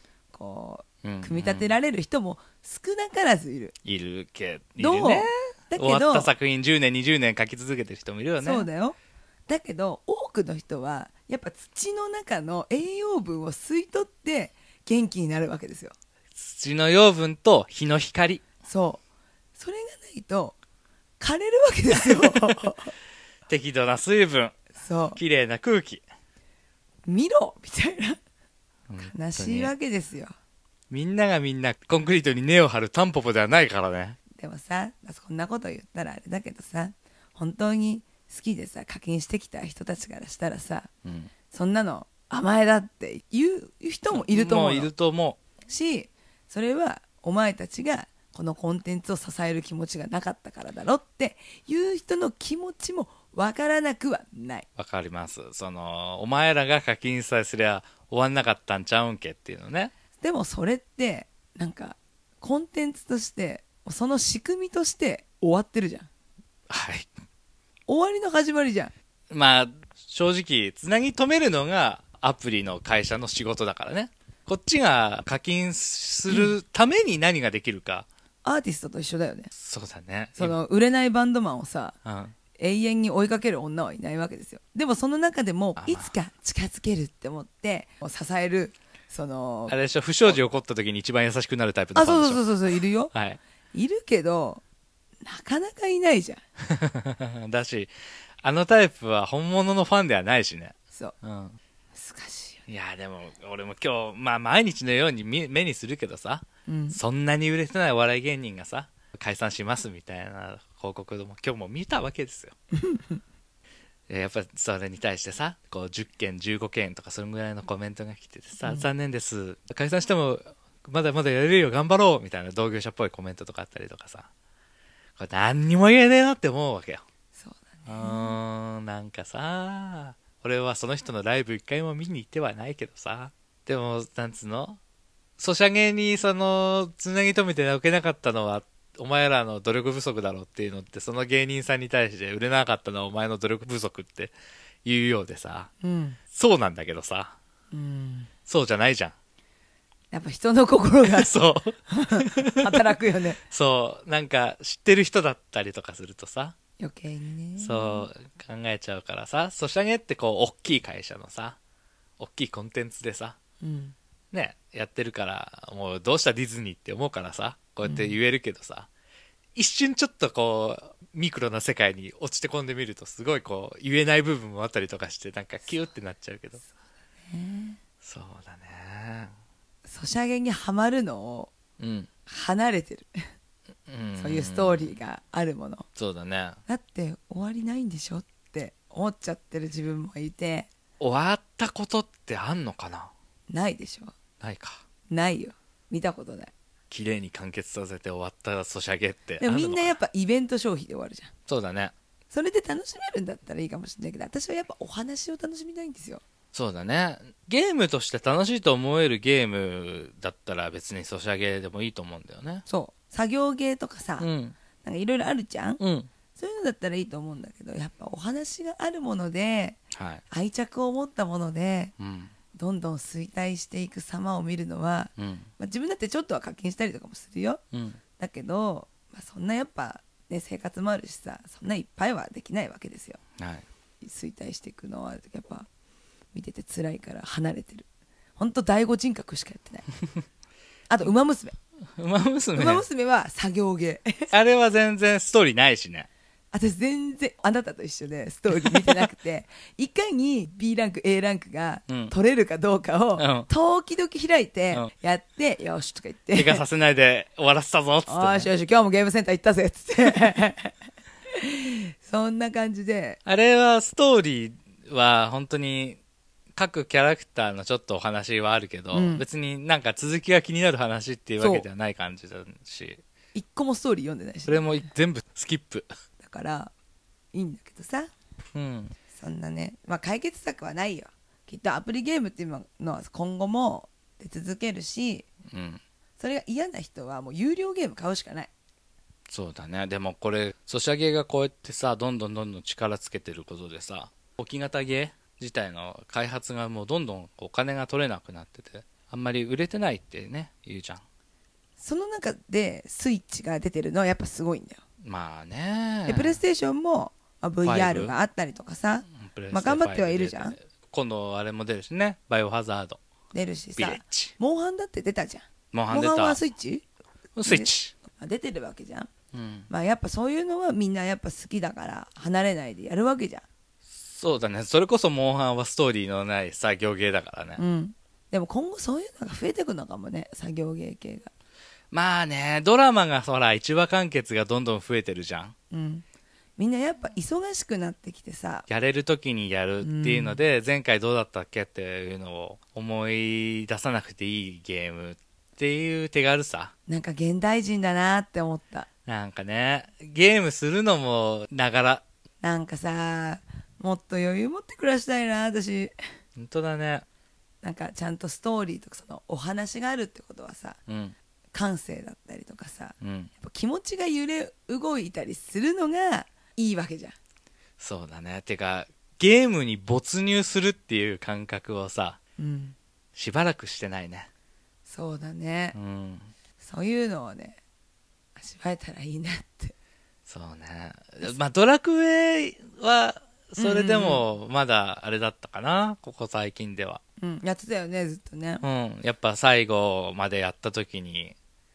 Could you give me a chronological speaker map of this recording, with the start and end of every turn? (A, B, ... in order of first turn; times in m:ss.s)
0:00.3-0:03.8 A
0:01.0-0:01.7 B
0:03.8-0:08.7 B
0:04.8-0:06.3 A
0:08.4-0:09.0 A
0:09.5-0:16.0 A
0:16.4-0:18.4 B
0:18.7-0:19.0 A
0:19.6-0:20.6 A
0:21.2-0:22.9 A
0:22.0-0:22.4 B
0:23.5-0:24.6 B
0:24.8-0:25.2 A
0:25.2-0:26.0 B
0:27.1-0:28.2 A
0:28.9-0:29.7 B
0:29.0-0:30.3 A
0:30.9-0:34.2 B
0:34.4-0:40.9 A
0:41.0-0:41.3 B
0:41.5-0:44.9 A
0:44.1-0:45.4 B
0:45.7-0:54.7 A
0:54.8-0:59.9 B
1:00.2-1:06.1 A
1:06.7-1:07.1 B
1:07.9-1:08.9 A
1:09.3-1:18.1 B
1:18.4-1:19.5 A
1:19.5-1:20.6 B
1:20.4-1:22.0 A
1:22.0-1:22.3 B
1:22.6-1:29.8 A
1:25.8-1:26.1 B
1:29.7-1:32.4 B
1:32.0-1:33.1 A
1:33.1-1:33.4 B
1:33.7-1:34.6 A
1:35.2-1:36.4 A
1:36.6-1:41.6 B
1:41.9-1:42.6 A
1:42.7-1:52.5 B
1:46.7-1:47.0 A
1:52.7-1:53.2 A
1:54.1-2:04.3 B
2:05.2-2:07.0 B
2:07.4-2:08.4 A
2:07.9-2:14.8 B
2:15.4-2:24.3 B
2:24.8-2:25.7 B
2:25.8-2:26.2 A
2:26.3-2:27.4 B
2:27.7-2:28.3 A
2:28.5-2:29.1 B
2:30.1-2:31.4 A
2:31.0-2:32.9 B
2:31.9-2:33.4 A
2:33.4-2:36.6 B
2:36.8-2:38.1 A
2:37.6-2:41.6 B
2:42.2-2:43.4 B
2:43.6-2:44.0 A
2:44.3-2:48.9 B
2:47.8-2:48.1 A
2:49.6-2:56.6 B
2:57.3-2:57.8 A
2:58.0-2:59.3 B
2:59.8-3:01.5 A
3:01.8-3:02.1 B
3:02.3-3:03.2 A
3:03.9-3:04.9 B
3:04.2-3:05.9 A
3:06.0-3:06.6 B
3:06.7-3:10.7 A
3:11.0-3:13.1 B
3:13.5-3:14.1 A
3:14.4-3:14.8 B
3:15.1-3:16.5 A
3:16.9-3:20.0 B
3:19.4-3:21.3 A
3:21.5-3:21.9 B
3:22.3-3:26.2 A
3:26.5-3:32.7 B
3:32.7-3:34.3 A
3:34.2-3:34.6 B
3:34.8-3:35.8 A
3:35.8-3:36.1 B
3:36.3-3:39.8 A
3:39.9-3:40.2 B
3:40.3-3:41.9 A
3:42.0-3:42.3 B
3:42.5-3:47.6 A
3:45.2-3:45.5 B
3:47.7-3:48.0 B
3:48.2-3:53.2 A
3:53.4-3:53.6 B
3:54.0-3:55.7 A
3:56.3-3:57.9 A
3:58.4-3:59.9 A
4:00.9-4:01.6 A
4:02.0-4:02.8 B
4:02.6-4:04.3 A
4:04.3-4:06.1 B
4:06.5-4:16.6 A
4:08.6-4:09.0 B
4:11.9-4:12.1 B
4:13.2-4:13.5 B
4:16.4-4:18.5 B
4:18.1-4:20.8 A
4:21.3-4:23.2 A
4:23.2-4:26.0 B
4:26.6-4:33.0 B
4:28.9-4:29.2 A
4:31.4-4:31.7 A
4:33.4-4:34.9 A
4:34.5-4:35.9 B
4:36.2-4:36.7 A
4:37.3-4:38.1 A
4:38.5-4:39.0 B
4:39.1-4:45.3 A
4:45.5-4:45.8 B
4:46.2-4:48.5 A
4:49.3-5:01.0 B
5:01.8-5:04.8 A
5:05.0-5:06.4 B
5:06.1-5:10.6 A
5:07.6-5:08.1 B
5:09.1-5:13.0 B
5:13.3-5:16.8 A
5:13.8-5:14.3 B
5:15.7-5:16.4 B
5:17.4-5:17.9 B
5:17.4-5:19.1 A
5:19.3-5:19.7 B
5:19.7-5:23.5 A
5:23.9-5:27.6 B
5:27.6-5:31.3 A
5:31.9-5:35.6 B
5:35.7-5:36.0 A
5:36.6-5:38.7 A
5:38.7-5:46.7 B
5:39.8-5:40.4 A
5:46.9-5:48.9 A
5:49.1-5:52.0 B
5:52.4-5:55.9 A
5:56.4-5:57.0 B
5:57.6-6:00.8 A
6:00.9-6:01.1 B
6:01.5-6:07.2 A
6:03.0-6:03.3 B
6:07.8-6:12.2 B
6:12.4-6:12.8 A
6:13.2-6:14.3 B
6:14.9-6:15.8 A
6:15.8-6:16.3 B
6:16.6-6:17.6 A
6:18.4-6:19.8 A
6:20.3-6:27.0 B
6:23.6-6:24.2 A
6:27.2-6:28.6 A
6:28.6-6:31.4 B